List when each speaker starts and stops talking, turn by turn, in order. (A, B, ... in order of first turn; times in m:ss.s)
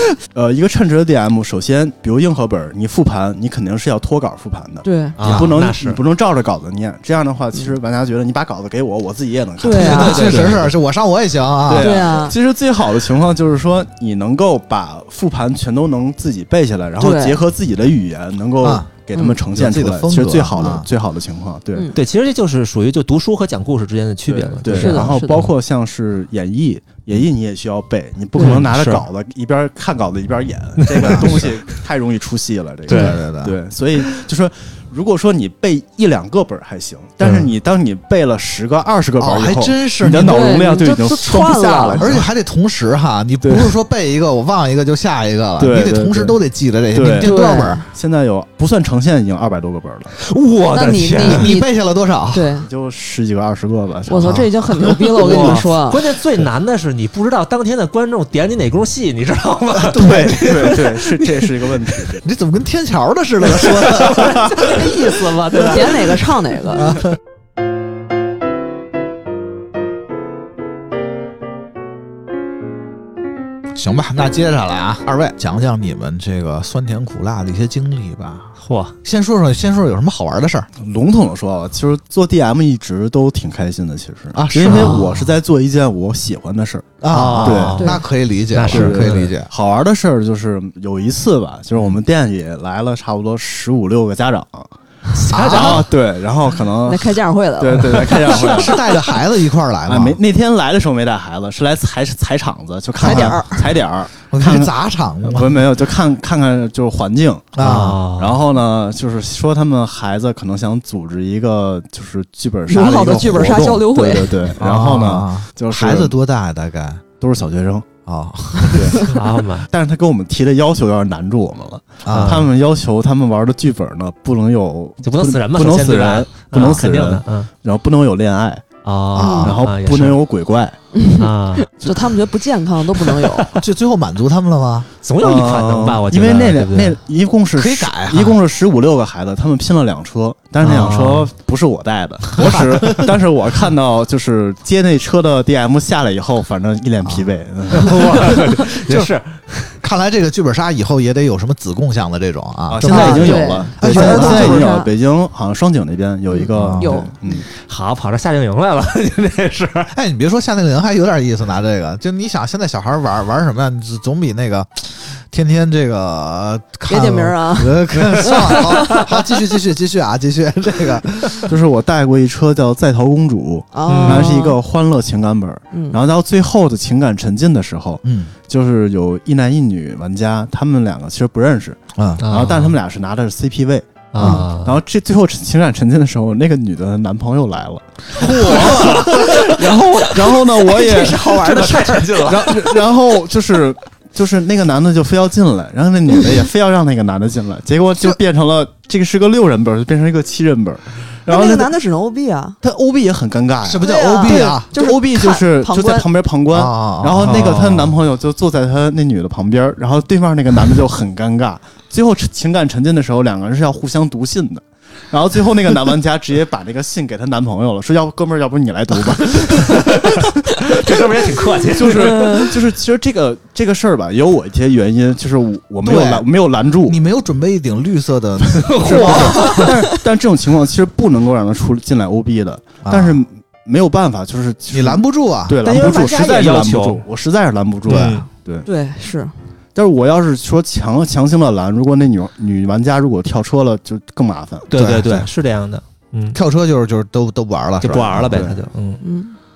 0:00.3-0:10.8 A
0:04.8-0:05.2 B
0:05.2-0:06.0 C
0:05.2-0:05.6 D
0:09.6-0:10.4 B
0:09.7-0:12.1 D
0:09.8-0:10.6 C
0:11.7-0:21.9 A
0:11.8-0:12.4 B
0:17.0-0:17.4 B
0:18.6-0:18.9 D
0:19.5-0:20.9 D
0:21.9-0:25.3 C
0:24.3-0:42.3 A
0:24.7-0:25.5 B
0:28.4-0:28.6 B
0:28.4-0:29.1 C
0:30.8-0:31.6 C
0:31.0-0:31.4 D
0:32.9-0:33.2 C
0:32.9-0:33.6 D
0:37.2-0:37.5 C
0:39.2-0:40.6 D
0:40.2-0:42.1 B
0:42.0-0:47.8 D
0:43.4-0:43.7 A
0:45.6-0:46.4 A
0:46.9-0:50.1 A
0:47.2-0:47.9 B
0:50.2-0:51.5 C
0:50.7-0:51.7 B
0:51.2-0:52.5 D
0:52.3-0:52.7 B
0:52.6-0:54.5 A
0:54.1-0:56.0 B
0:54.3-0:54.9 D
0:55.2-1:01.7 C
0:55.2-0:55.6 A
0:59.8-1:00.5 D
0:59.9-1:02.2 A
1:02.2-1:06.0 D
1:03.5-1:06.1 C
1:05.6-1:07.0 B
1:06.7-1:07.2 D
1:13.7-1:20.7 D
1:18.6-1:18.9 C
1:20.8-1:27.8 A
1:24.3-1:25.2 D
1:24.7-1:25.0 C
1:24.7-1:25.0 B
1:27.0-1:29.5 D
1:27.1-1:28.0 C
1:28.5-1:29.3 C
1:28.7-1:34.7 A
1:35.2-1:35.9 C
1:35.3-1:35.9 D
1:35.4-1:38.8 A
1:36.8-1:38.9 B
1:38.2-1:40.2 D
1:39.9-1:44.7 A
1:43.0-1:43.6 D
1:43.0-1:43.6 B
1:44.3-1:45.6 D
1:45.2-1:47.6 A
1:47.5-1:48.0 D
1:47.6-1:48.4 C
1:48.2-1:56.1 A
1:52.7-1:54.5 B
1:54.6-1:57.0 D
1:57.2-1:57.9 A
1:58.1-1:59.1 D
1:58.7-1:59.1 A
1:59.0-1:59.7 C
1:59.7-2:08.7 A
2:02.0-2:02.5 D
2:02.1-2:02.5 C
2:05.0-2:07.5 C
2:08.8-2:10.2 C
2:09.2-2:09.4 D
2:09.2-2:09.6 B
2:09.4-2:10.8 A
2:10.9-2:13.5 B
2:11.2-2:11.7 C
2:13.5-2:14.9 D
2:15.0-2:17.0 C
2:15.2-2:28.4 A
2:17.6-2:18.4 D
2:20.6-2:21.3 C
2:22.4-2:23.2 D
2:27.7-2:29.8 C
2:27.9-2:29.1 D
2:29.8-2:34.7 D
2:32.7-2:37.5 A
2:32.8-2:34.9 B
2:36.3-2:37.2 B
2:36.5-2:37.0 D
2:37.5-2:39.9 C
2:39.9-2:51.5 D
2:46.9-2:49.0 B
2:48.0-2:49.0 C
2:51.5-3:21.7 A
2:53.7-2:54.6 B
2:53.9-2:54.4 C
2:55.7-2:56.0 B
2:58.0-2:58.3 D
3:02.0-3:02.2 D
3:02.2-3:02.8 C
3:04.1-3:04.8 C
3:04.2-3:04.5 B
3:08.2-3:09.4 D
3:08.2-3:12.8 C
3:10.7-3:12.2 B
3:21.3-3:22.6 B
3:22.6-3:41.0 A
3:23.6-3:24.7 D
3:23.8-3:26.1 B
3:26.5-3:27.6 D
3:27.2-3:28.0 C
3:39.4-3:42.6 C
3:41.8-3:47.0 A
3:42.2-3:42.5 B
3:45.8-3:46.3 D
3:46.8-3:49.8 D
3:48.5-3:49.7 C
3:48.8-3:58.7 A
3:52.8-3:53.2 D
3:54.7-3:55.6 D
3:55.6-3:57.0 C
3:57.9-3:58.3 C
3:57.9-3:58.3 D
3:58.6-3:59.3 B
3:59.8-4:04.7 A
4:04.7-4:06.4 C
4:04.7-4:05.3 D
4:06.3-4:08.6 D
4:07.8-4:09.0 C
4:09.0-4:09.4 B